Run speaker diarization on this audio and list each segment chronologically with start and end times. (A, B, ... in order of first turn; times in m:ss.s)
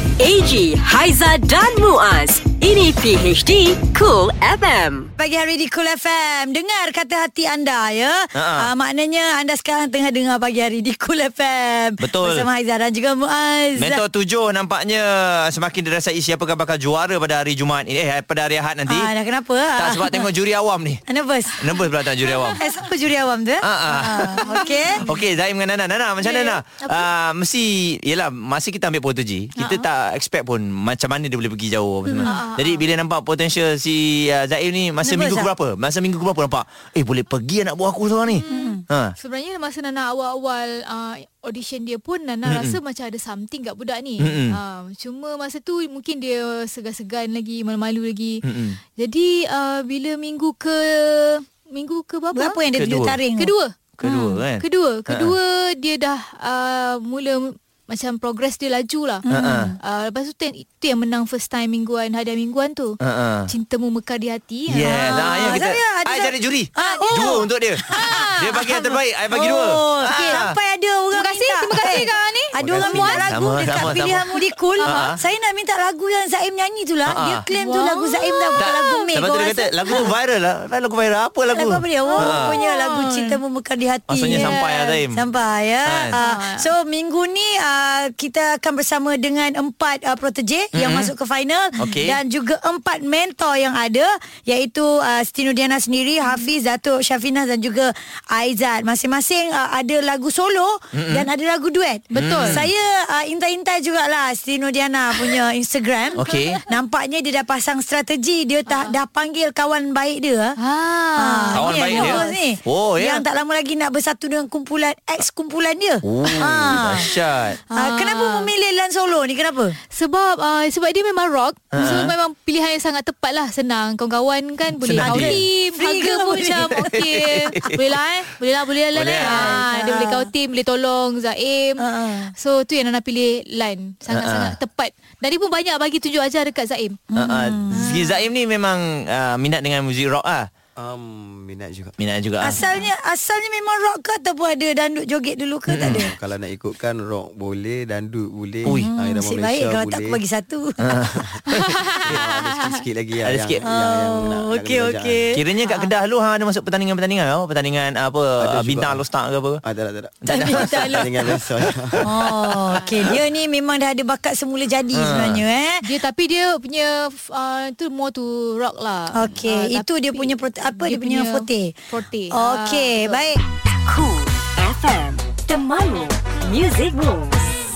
0:00.2-0:05.1 A
0:05.2-0:14.0 B
0:08.3-0:08.7 C
0:12.0-0:12.5 C
0:13.8-0:19.1 C
0:18.9-0:20.3 B
0:19.8-0:21.0 C
0:21.1-0:21.6 B
0:21.6-0:22.6 C
0:22.3-0:22.6 D
0:22.6-0:25.1 B
0:23.6-0:39.1 C
0:24.4-0:25.2 D
0:26.2-0:27.1 D
0:29.6-0:29.8 D
0:32.2-0:32.8 D
0:35.0-0:35.5 B
0:38.3-0:48.4 D
0:38.5-0:38.8 B
0:42.4-0:42.8 C
0:44.2-0:44.6 C
0:48.4-0:48.8 C
0:49.0-0:52.6 D
0:52.3-0:53.5 B
0:52.8-0:53.2 C
0:53.4-0:59.2 D
0:54.0-0:55.3 C
0:59.3-0:59.8 B
0:59.3-0:59.8 C
0:59.8-1:05.6 D
1:03.0-1:03.5 C
1:04.7-1:10.6 C
1:04.9-1:08.3 B
1:06.8-1:08.8 D
1:09.3-1:20.1 B
1:11.1-1:13.3 D
1:12.6-1:13.1 E
1:13.0-1:14.3 C
1:14.8-1:15.2 D
1:14.8-1:15.2 C
1:17.0-1:17.4 C
1:17.5-1:19.0 D
1:18.6-1:22.6 C
1:21.5-1:50.6 B
1:22.0-1:23.4 D
1:24.1-1:25.2 C
1:24.2-1:24.8 D
1:25.8-1:26.2 C
1:26.1-1:26.7 D
1:30.7-1:31.1 C
1:31.8-1:32.2 C
1:40.9-1:41.3 C
1:42.1-1:42.6 D
1:42.1-1:42.6 C
1:46.2-1:46.6 D
1:46.2-1:46.6 C
1:48.7-1:48.9 D
1:50.6-1:52.3 D
1:51.2-1:57.1 B
1:51.5-1:53.2 C
1:56.0-1:57.6 C
1:57.7-1:58.5 D
1:57.7-1:59.8 B
1:59.9-2:11.8 D
2:01.7-2:02.1 C
2:04.8-2:05.4 C
2:05.0-2:06.9 B
2:06.8-2:07.8 C
2:08.9-2:09.6 C
2:09.2-2:10.3 B
2:11.8-2:12.3 B
2:12.4-2:17.0 D
2:14.1-2:14.5 C
2:17.1-2:18.1 B
2:17.2-2:20.5 C
2:20.8-2:21.9 E
2:22.0-2:22.6 C
2:22.4-2:26.1 B
2:22.6-2:22.9 D
2:25.7-2:26.0 C
2:25.8-2:30.2 E
2:28.7-2:30.9 B
2:30.8-2:31.2 C
2:31.5-2:32.8 D
2:32.0-2:35.3 E
2:33.2-2:33.6 C
2:33.7-2:35.8 B
2:35.3-2:39.6 C
2:38.4-2:39.0 E
2:39.6-2:42.1 E
2:40.2-2:41.4 C
2:40.3-2:41.1 B
2:41.9-2:42.5 C
2:42.0-2:45.8 B
2:42.8-2:43.1 D
2:44.9-2:45.4 C
2:45.8-2:53.3 D
2:49.1-2:51.7 B
2:52.3-2:53.4 B
2:53.8-2:57.5 A